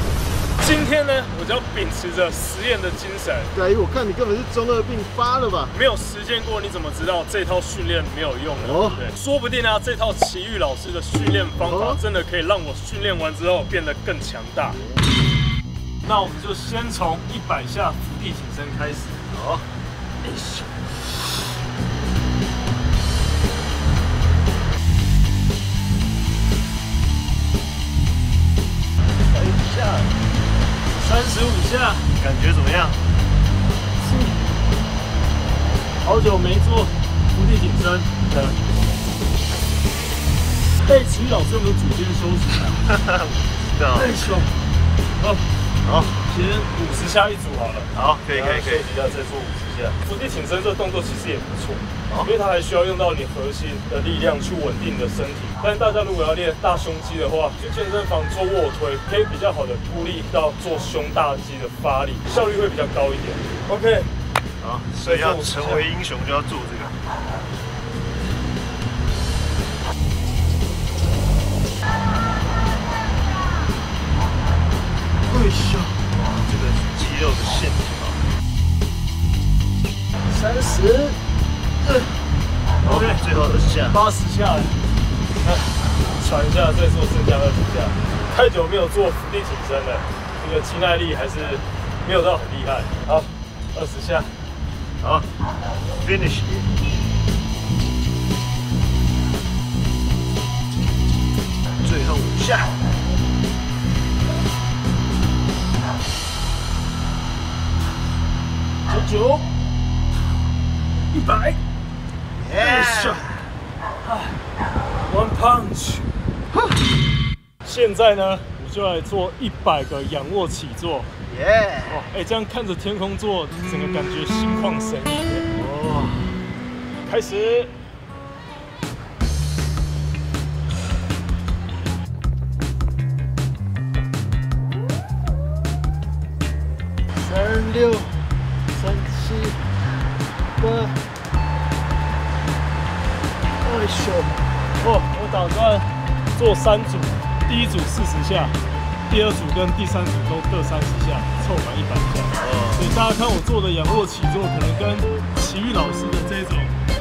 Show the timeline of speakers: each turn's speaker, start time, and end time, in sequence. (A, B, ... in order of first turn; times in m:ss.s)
0:00.6-0:03.5 A
0:03.5-0:05.7 B
0:05.7-0:14.8 A
0:08.6-0:09.0 B
0:11.6-0:12.0 B
0:16.0-0:19.2 A
0:19.3-0:19.7 B
0:20.2-0:20.7 A
0:29.3-0:30.1 B
0:31.0-0:32.1 A
0:32.2-0:33.0 B
0:34.0-0:34.4 A
0:36.0-0:38.6 A
0:40.8-0:42.8 A
0:42.7-0:44.2 B
0:44.0-0:44.6 A
0:45.8-0:46.2 B
0:46.3-1:04.1 A
0:47.9-0:48.9 B
1:04.6-1:07.0 B
1:05.0-1:05.8 A
1:15.3-1:16.0 A
1:16.3-1:18.2 B
1:20.3-1:21.2 A
1:22.8-1:24.0 B
1:22.8-1:24.8 A
1:25.4-1:34.4 A
1:35.0-1:35.3 B
1:36.0-1:36.7 B
1:41.8-1:42.7 B
1:48.9-1:49.5 A
1:51.1-1:51.6 A
1:52.4-1:53.4 B
1:52.6-1:53.2 A
1:54.0-1:54.4 A
1:55.1-1:56.1 A
1:56.5-1:56.8 B
1:57.6-2:01.1 A
2:01.3-2:02.0 B
2:01.9-2:05.5 A
2:05.5-2:06.5 B
2:07.1-2:07.7 A
2:17.2-2:19.6 A
2:20.6-2:21.0 A
2:23.6-2:28.6 A
2:29.1-2:36.8 A
2:32.4-2:32.9 B